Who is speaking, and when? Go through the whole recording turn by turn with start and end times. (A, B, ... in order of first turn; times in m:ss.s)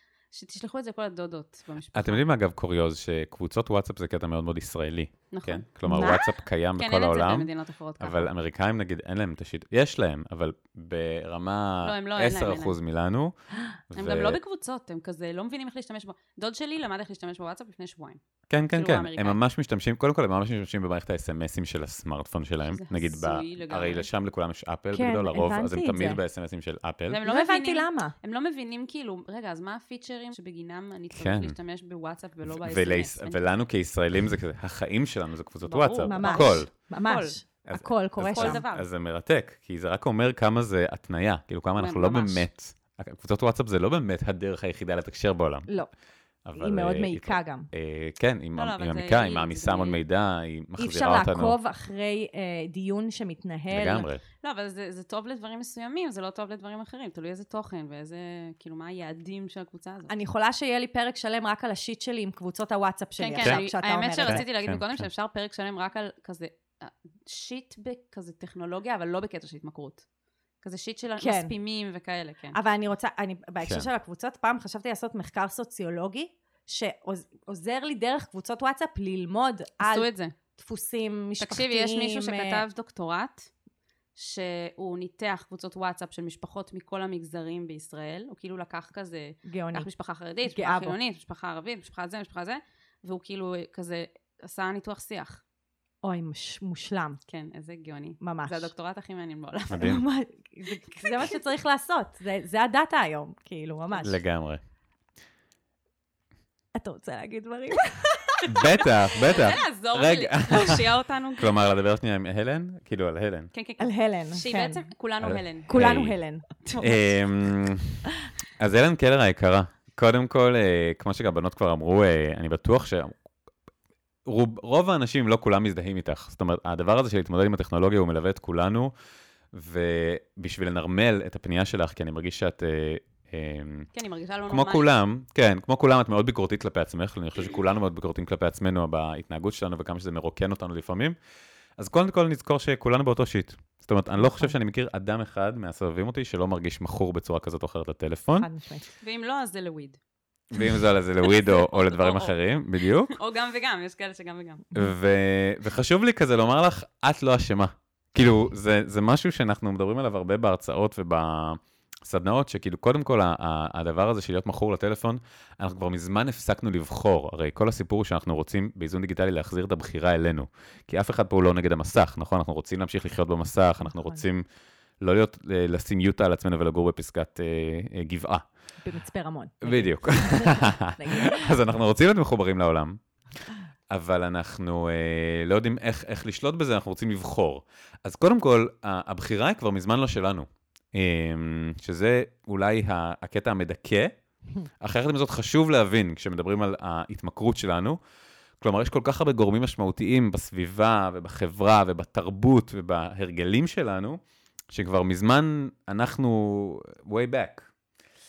0:00.3-0:02.3 A
0:01.9-0:13.4 B
0:05.3-0:06.2 A
0:05.9-0:06.3 C
0:06.8-0:08.3 A
0:11.8-0:12.8 A
0:13.9-0:14.4 B
0:14.0-0:19.4 A
0:18.5-0:27.2 B
0:22.7-0:24.1 A
0:24.9-0:26.2 C
0:27.1-0:33.4 A
0:27.2-0:28.1 C
0:31.1-0:31.6 B
0:32.5-0:36.7 B
0:35.6-0:37.4 A
0:36.0-0:38.6 C
0:37.6-0:45.7 B
0:38.2-0:38.9 A
0:41.8-0:42.5 A
0:46.4-0:51.6 B
0:46.6-0:47.7 C
0:48.6-0:50.0 A
0:50.8-0:54.1 C
0:53.7-0:54.2 B
0:54.4-1:00.1 A
1:00.1-1:04.4 C
1:03.2-1:10.0 A
1:04.2-1:05.1 B
1:10.6-1:12.6 A
1:11.2-1:11.5 C
1:12.5-1:22.6 C
1:13.6-1:13.9 B
1:19.8-1:20.3 A
1:21.4-1:23.5 A
1:24.2-1:35.4 A
1:29.5-1:29.9 C
1:30.5-1:31.0 C
1:36.0-1:37.2 C
1:37.3-1:40.0 A
1:38.2-1:38.7 C
1:39.7-1:40.0 B
1:39.8-1:44.2 C
1:41.0-1:41.3 A
1:44.0-1:44.6 B
1:46.7-1:48.4 C
1:48.4-1:50.8 B
1:49.3-1:51.6 A
1:51.4-1:53.5 B
1:53.5-1:55.8 A
1:53.8-1:54.8 C
1:55.2-1:56.2 B
1:55.7-1:57.0 C
1:56.8-1:58.0 B
1:58.6-2:03.2 B
2:04.2-2:08.9 B
2:09.5-2:13.9 B
2:13.9-2:14.9 A
2:14.5-2:21.2 B
2:21.8-2:28.5 B
2:24.2-2:24.5 C
2:28.4-2:28.8 C
2:29.0-2:30.0 A
2:30.5-2:33.1 B
2:31.2-2:32.3 A
2:33.1-2:34.7 A
2:34.7-2:54.4 B
2:53.8-2:54.2 C
2:55.0-2:58.5 B
2:58.8-3:01.6 C
2:59.6-3:03.0 B
3:03.9-3:14.1 B
3:14.6-3:18.0 B
3:18.6-3:24.2 B
3:24.7-3:27.7 B